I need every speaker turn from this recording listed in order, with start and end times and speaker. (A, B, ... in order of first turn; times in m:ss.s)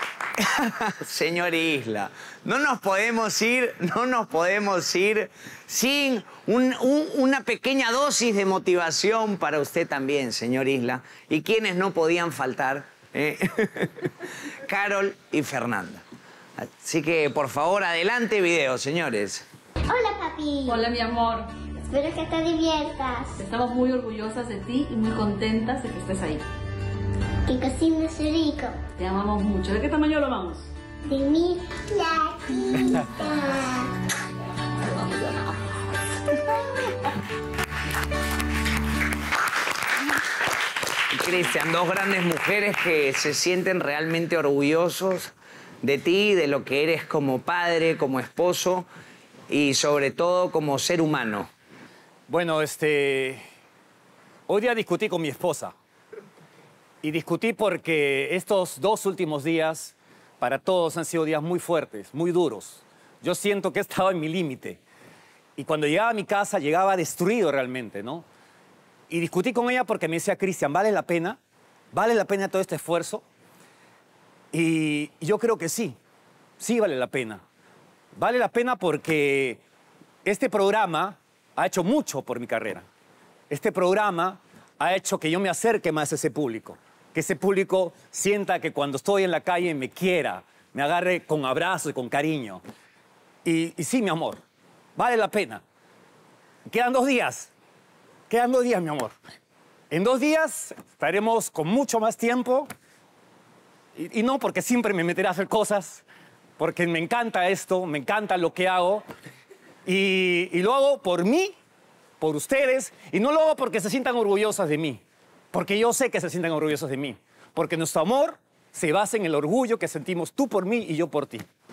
0:00.4-0:14.1 A
0:14.6-0:16.0 A
0:16.6-0:19.4 A
0:19.9-0:20.7 B
0:20.7-0:21.5 C
0:21.9-0:23.3 B
0:23.4-0:26.4 C
0:27.5-0:28.7 B
0:29.0-0:30.6 C
0:31.1-0:32.9 B
0:41.1-0:48.9 A
0:49.5-0:51.5 A
0:52.3-0:53.4 D
0:54.5-0:55.7 D
0:57.0-1:04.8 D
1:05.6-1:08.2 D
1:09.1-1:11.4 D
1:11.9-1:13.2 D
1:14.5-1:16.0 D
1:16.6-1:17.4 D
1:18.1-1:19.6 D
1:20.2-1:22.9 D
1:23.5-1:32.6 D
1:33.4-1:34.4 D
1:35.0-1:35.6 D
1:36.7-1:37.5 D
1:38.3-1:39.2 D
1:39.9-1:42.7 D
1:44.0-1:46.0 D
1:46.6-1:49.0 D
1:49.8-1:51.5 D
1:52.2-1:55.0 D
1:55.5-2:01.5 D